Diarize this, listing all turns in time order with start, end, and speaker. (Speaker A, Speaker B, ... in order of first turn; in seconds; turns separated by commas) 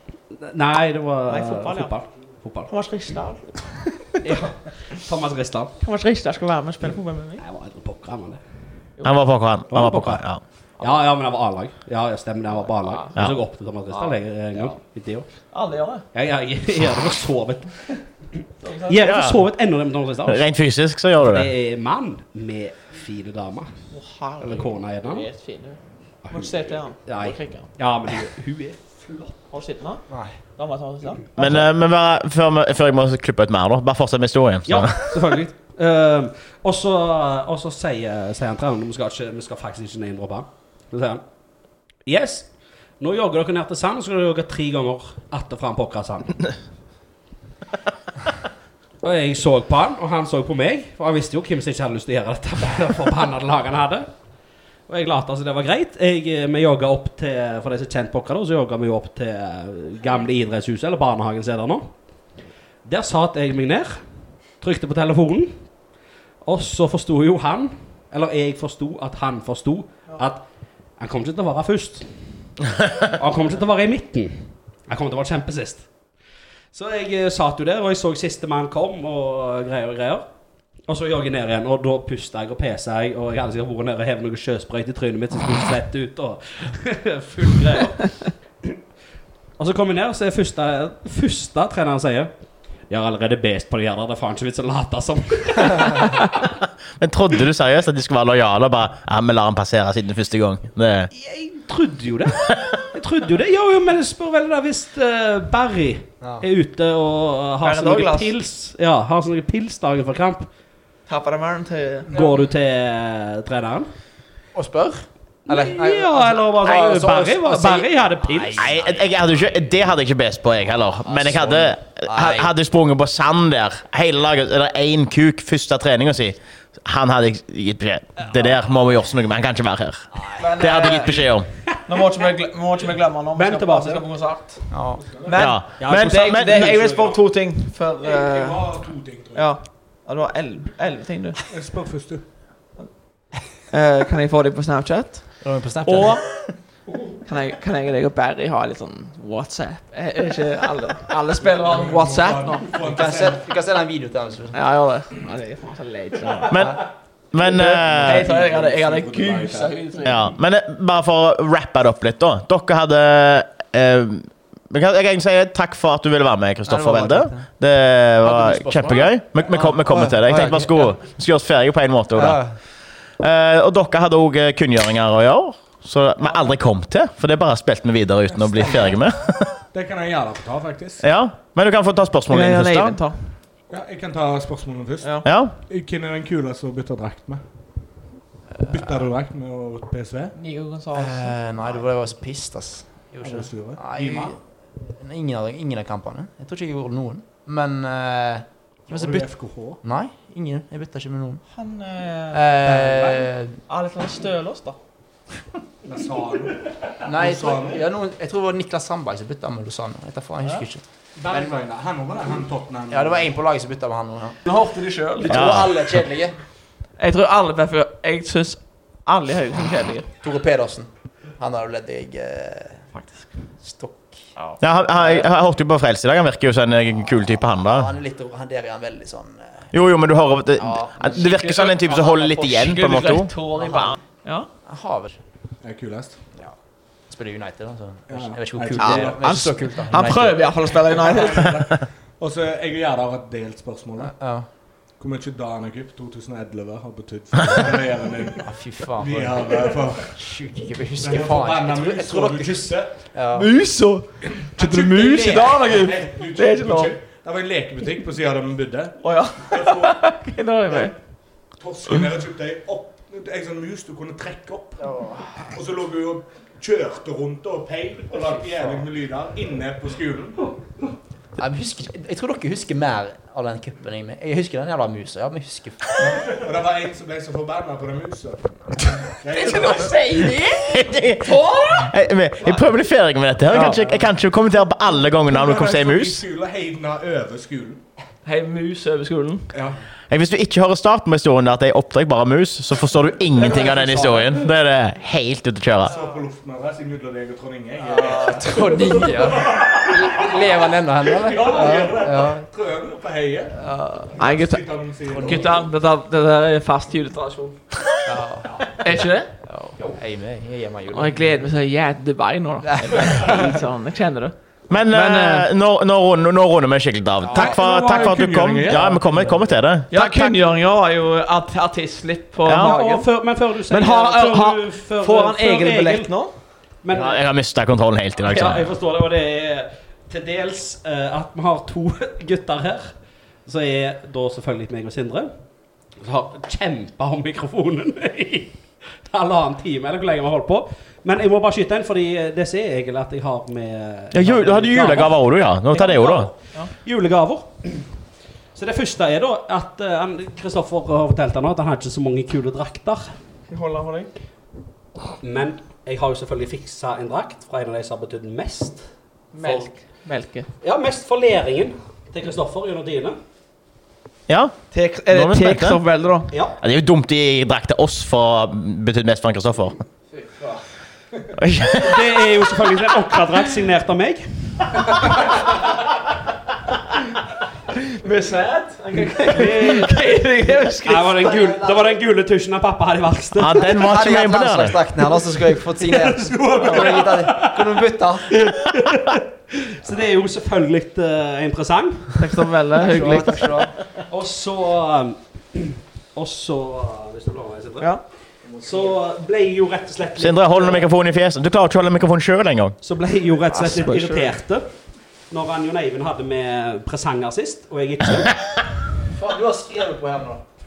Speaker A: 0.3-2.7, Speaker B: 1.3-1.9, Speaker B: 2.7-4.2, Speaker A: 4.2-5.8, Speaker B: 5.8-7.5, Speaker A: 7.4-8.4, Speaker C: 9.0-10.4, Speaker A: 9.7-10.2, Speaker A: 10.8-15.3, Speaker B: 12.6-13.2, Speaker B: 13.9-14.8, Speaker B: 15.5-16.1, Speaker A: 16.1-20.5, Speaker B: 18.6-19.0, Speaker C: 19.0-19.4, Speaker C: 20.3-21.5, Speaker A: 21.2-23.8, Speaker B: 23.9-27.7, Speaker A: 24.4-25.3, Speaker A: 26.2-29.3, Speaker B: 29.5-31.6, Speaker D: 30.1-30.3, Speaker C: 31.4-35.1, Speaker A: 34.6-41.2, Speaker A: 42.0-46.4, Speaker A: 49.0-54.1, Speaker A: 54.9-61.9, Speaker A: 62.8-64.0, Speaker A: 64.6-65.7, Speaker A: 66.4-70.4, Speaker A: 71.0-72.6, Speaker A: 73.1-75.9, Speaker A: 76.7-80.3, Speaker A: 80.9-88.8, Speaker A: 89.6-92.3, Speaker A: 92.9-96.1, Speaker C: 97.0-101.1, Speaker A: 101.1-110.5, Speaker D: 106.2-106.5, Speaker B: 107.6-108.3, Speaker B: 111.1-112.1, Speaker A: 112.1-113.9, Speaker D: 114.5-119.5, Speaker A: 115.5-118.7, Speaker C: 118.6-131.5, Speaker D: 121.0-122.5, Speaker D: 130.1-130.5, Speaker B: 130.4-131.3, Speaker A: 131.7-132.0, Speaker B: 131.9-138.7, Speaker A: 133.4-134.1, Speaker D: 134.7-135.0, Speaker E: 135.0-135.4, Speaker C: 135.4-136.7, Speaker A: 135.8-137.2, Speaker E: 138.0-139.5, Speaker B: 139.3-141.4, Speaker E: 141.5-142.3, Speaker B: 143.7-146.5, Speaker D: 145.4-146.4, Speaker B: 147.2-152.7, Speaker E: 151.5-153.5, Speaker D: 152.8-154.6, Speaker B: 154.5-156.8, Speaker C: 156.5-158.3, Speaker B: 157.4-160.3, Speaker E: 157.5-160.0, Speaker C: 160.0-172.6, Speaker D: 166.7-167.5, Speaker D: 168.2-170.8, Speaker E: 169.4-169.7, Speaker D: 172.1-172.6, Speaker C: 173.2-179.6, Speaker B: 176.3-176.5, Speaker E: 179.7-181.0, Speaker C: 181.0-183.0, Speaker B: 182.3-183.3, Speaker E: 183.7-187.4, Speaker B: 185.0-185.3, Speaker C: 185.2-185.6, Speaker E: 188.6-190.3, Speaker B: 190.3-191.4, Speaker D: 190.9-199.3, Speaker E: 193.2-194.4, Speaker E: 198.9-199.8, Speaker D: 199.8-201.4, Speaker B: 201.5-204.8, Speaker D: 202.3-203.6, Speaker E: 205.8-207.8, Speaker D: 207.1-211.5, Speaker E: 211.2-213.3, Speaker D: 212.9-214.4, Speaker B: 214.4-215.4, Speaker D: 215.2-216.3, Speaker C: 215.3-215.7, Speaker B: 217.0-220.1, Speaker D: 220.2-222.8, Speaker B: 222.9-223.3, Speaker D: 223.6-224.2, Speaker B: 224.3-225.3, Speaker C: 224.6-227.9, Speaker D: 227.6-229.7, Speaker C: 229.7-233.3, Speaker D: 230.6-231.3, Speaker B: 231.0-234.5, Speaker D: 231.9-232.6, Speaker D: 233.6-233.9, Speaker D: 234.7-235.2, Speaker E: 235.6-236.2, Speaker D: 237.1-240.5, Speaker E: 238.1-239.5, Speaker B: 238.8-241.6, Speaker E: 240.8-244.1, Speaker D: 244.0-244.5, Speaker E: 245.0-250.3, Speaker D: 248.4-253.5, Speaker E: 251.0-253.1, Speaker B: 253.3-256.9, Speaker E: 254.4-260.0, Speaker B: 259.0-260.9, Speaker E: 261.6-270.5, Speaker D: 264.9-265.4, Speaker D: 271.4-275.9, Speaker E: 276.0-280.1, Speaker B: 279.3-282.7, Speaker C: 280.7-286.2, Speaker B: 283.5-283.8, Speaker E: 283.5-284.1, Speaker E: 285.3-287.8, Speaker B: 288.2-289.5, Speaker E: 289.5-289.8, Speaker C: 290.1-295.9, Speaker E: 293.4-294.4, Speaker E: 295.8-303.6, Speaker D: 297.8-302.4, Speaker D: 303.6-304.1, Speaker E: 304.1-305.6, Speaker B: 304.1-304.6, Speaker D: 305.1-305.5, Speaker B: 305.2-307.6, Speaker D: 308.1-308.8, Speaker B: 308.8-309.3, Speaker D: 309.4-311.3, Speaker B: 310.9-315.5, Speaker D: 312.7-313.4, Speaker C: 314.7-320.3, Speaker D: 317.2-317.6, Speaker E: 317.3-319.3, Speaker A: 317.6-318.1, Speaker B: 319.9-323.1, Speaker C: 322.5-322.7, Speaker A: 322.5-326.1, Speaker B: 323.7-326.3, Speaker A: 326.8-327.2, Speaker C: 326.9-328.7, Speaker A: 328.2-332.9, Speaker A: 333.4-335.3, Speaker A: 336.0-345.1, Speaker C: 344.1-346.3, Speaker A: 345.7-347.9, Speaker B: 345.7-346.7, Speaker A: 348.6-353.1, Speaker B: 353.5-354.1, Speaker A: 355.2-358.9, Speaker B: 359.3-360.5, Speaker A: 359.4-359.7, Speaker A: 360.6-363.2, Speaker C: 364.3-365.8, Speaker B: 364.7-366.3, Speaker A: 366.3-366.6, Speaker C: 366.6-369.8, Speaker D: 370.2-370.5, Speaker C: 371.4-372.3, Speaker A: 371.8-374.9, Speaker B: 377.7-381.3, Speaker A: 379.3-380.0, Speaker A: 380.8-383.6, Speaker D: 381.3-381.8, Speaker C: 383.4-384.8, Speaker D: 383.7-388.3, Speaker A: 385.8-393.5, Speaker B: 386.6-386.9, Speaker B: 392.2-393.6, Speaker D: 392.8-393.7, Speaker A: 394.1-397.9, Speaker A: 398.6-400.9, Speaker D: 398.6-398.9, Speaker C: 400.2-402.8, Speaker A: 402.8-404.7, Speaker D: 403.5-404.3, Speaker A: 405.3-408.4, Speaker D: 409.1-410.4